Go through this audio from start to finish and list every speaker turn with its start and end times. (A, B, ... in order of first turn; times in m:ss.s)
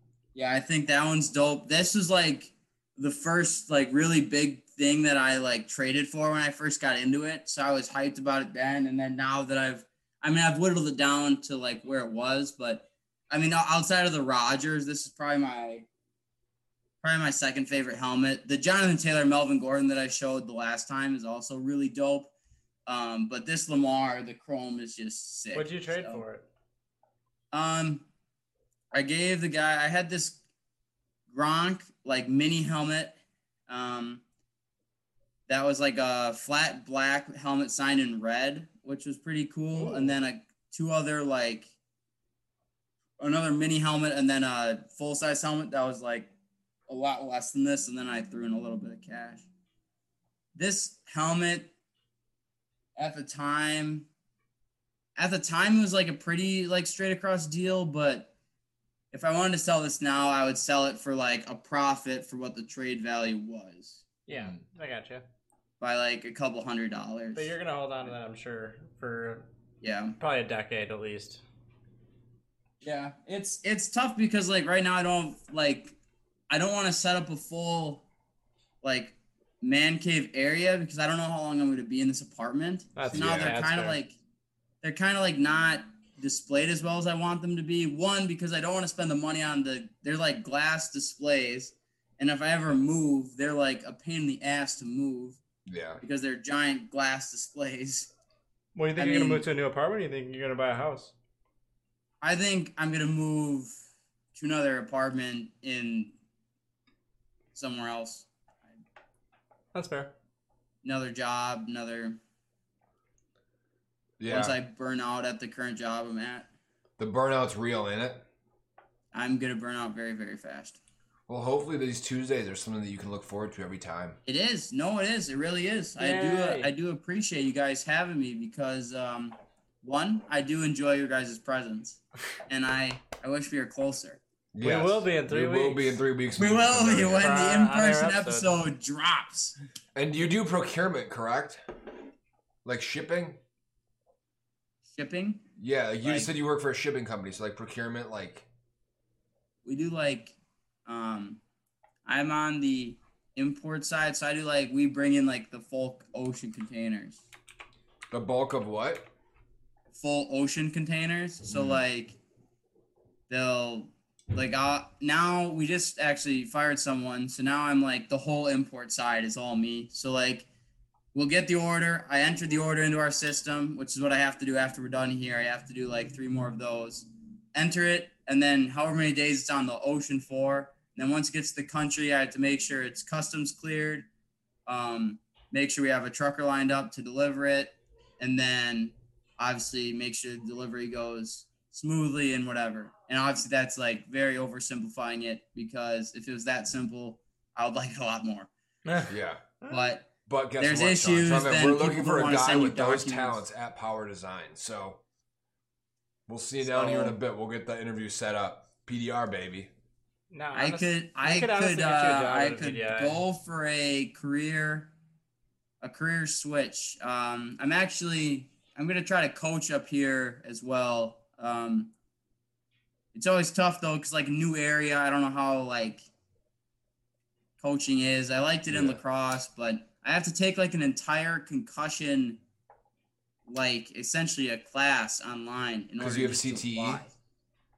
0:00.3-0:15.9 A
0:17.0-0:22.3 A
0:22.9-0:26.2 A
0:25.5-0:26.4 B
0:27.5-0:28.0 A
0:28.9-0:30.4 A
0:31.3-0:33.1 A
0:33.7-0:34.2 A
0:35.5-0:41.7 A
0:43.2-0:46.3 A
0:46.9-0:49.5 A
0:50.5-0:51.7 A
0:53.0-0:54.1 A
0:55.2-0:58.3 A
0:59.1-1:04.1 A
1:04.3-1:05.2 B
1:04.3-1:04.6 C
1:05.8-1:07.5 A
1:07.3-1:09.5 B
1:09.8-1:10.2 A
1:10.2-1:11.4 B
1:12.8-1:16.0 A
1:16.5-1:18.0 A
1:18.8-1:24.2 A
1:23.0-1:24.0 B
1:23.0-1:23.5 C
1:24.8-1:35.4 A
1:35.6-1:36.0 C
1:36.0-1:38.1 A
1:38.7-1:41.1 B
1:39.0-1:39.4 A
1:42.2-1:43.8 A
1:44.3-1:46.1 A
1:47.5-1:48.3 A
1:49.7-1:50.1 B
1:50.8-1:52.2 A
1:54.2-1:54.6 C
1:54.3-1:56.5 A
1:57.0-1:58.2 C
1:59.1-2:00.8 A
2:01.3-2:04.2 C
2:04.2-2:14.2 A
2:06.0-2:06.7 B
2:14.5-2:17.4 C
2:14.6-2:16.0 B
2:16.4-2:19.5 A
2:17.2-2:18.6 B
2:19.9-2:21.6 C
2:22.6-2:23.4 C
2:24.9-2:25.4 A
2:25.6-2:28.5 C
2:26.0-2:26.3 A
2:29.6-2:31.4 A
2:32.0-2:37.2 A
2:38.1-2:39.1 C
2:39.9-2:42.2 A
2:41.5-2:41.8 C
2:43.3-2:50.5 A
2:51.1-3:04.1 A
3:04.6-3:18.5 A
3:18.8-3:19.1 B
3:19.1-3:19.4 C
3:19.6-3:23.4 A
3:20.2-3:25.0 C
3:26.3-3:29.7 C
3:26.6-3:27.2 A
3:30.3-3:33.2 B
3:30.5-3:34.9 A
3:35.8-3:41.9 A
3:43.1-3:46.0 A
3:47.6-3:52.4 A
3:48.7-3:49.0 C
3:53.4-3:57.1 A
3:56.0-3:57.0 C